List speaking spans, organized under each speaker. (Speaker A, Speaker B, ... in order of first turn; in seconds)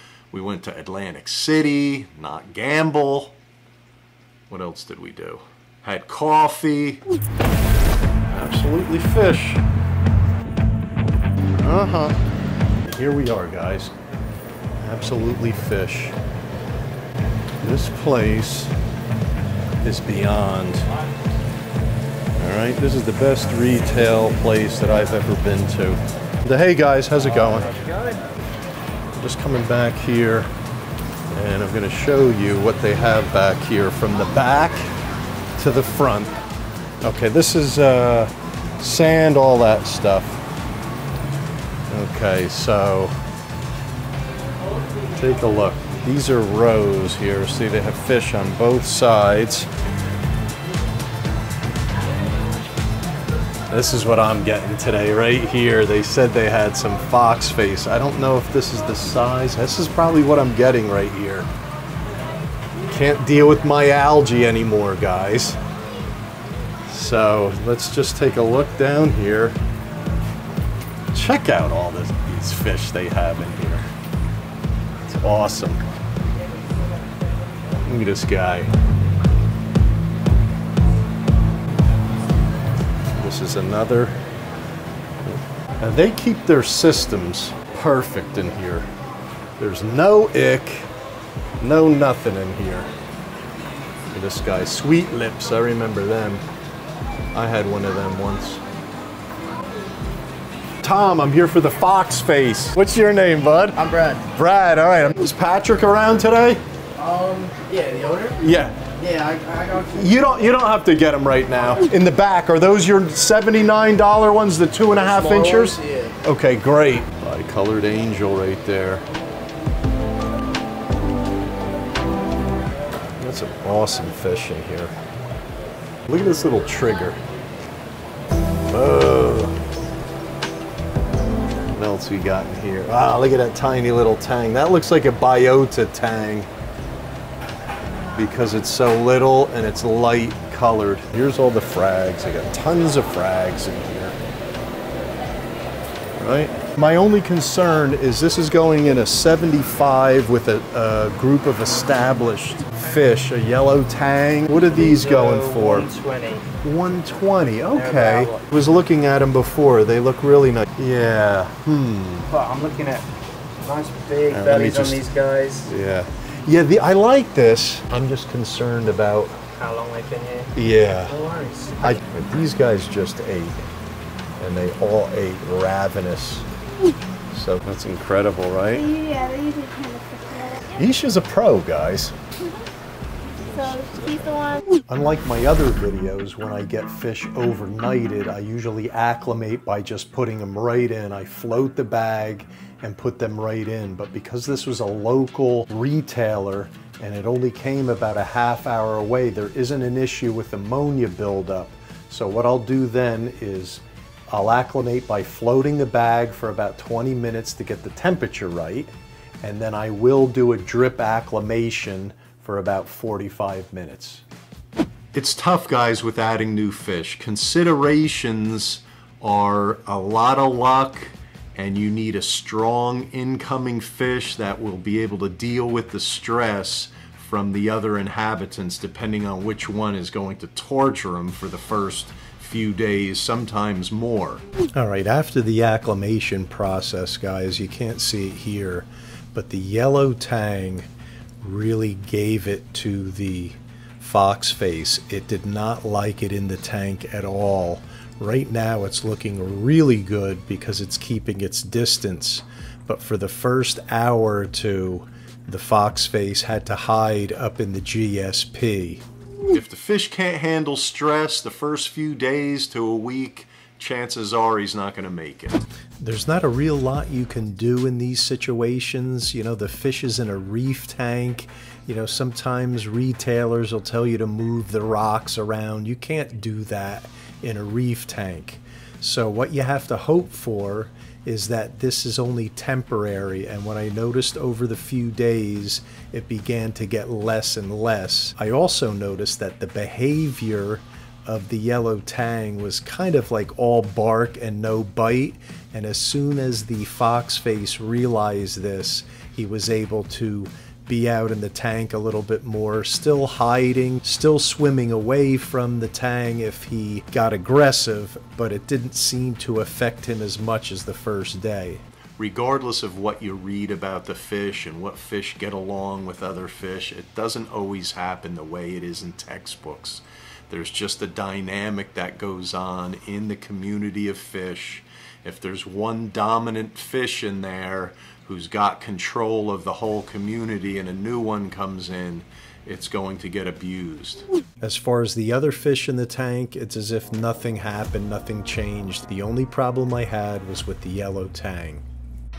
Speaker A: 0.3-3.4, 4.5-7.0, 8.3-9.6, 11.6-12.2, 12.8-13.9, 14.8-16.1, 17.6-18.7, 19.8-20.8, 22.4-27.7, 29.1-30.5, 31.3-34.9, 35.6-36.3, 37.0-40.4, 41.9-43.1, 45.1-49.7, 53.7-61.5, 62.9-65.6, 66.9-69.6, 71.1-73.8, 75.0-75.8, 77.8-78.7, 83.2-84.2, 85.2-88.9, 89.6-90.9, 91.6-92.9, 94.1-96.4, 97.3-98.6, 100.8-106.6, 108.4-108.8, 109.9-119.0, 123.2-124.9, 126.1-127.2, 128.7-129.6, 131.7-136.5, 138.1-144.2, 146.2-155.9, 156.6-162.3, 164.3-165.0, 165.7-169.3, 170.5-171.2, 171.8-173.6, 174.4-176.5, 177.3-178.9, 180.7-182.1, 183.5-214.2, 215.1-240.9, 241.4-341.8
Speaker B: 103.8-104.2, 107.0-110.2, 114.9-116.2, 154.6-156.4, 157.7-158.5, 162.3-163.1, 163.6-165.7, 169.3-172.0
Speaker C: 178.7-180.6, 183.6-184.6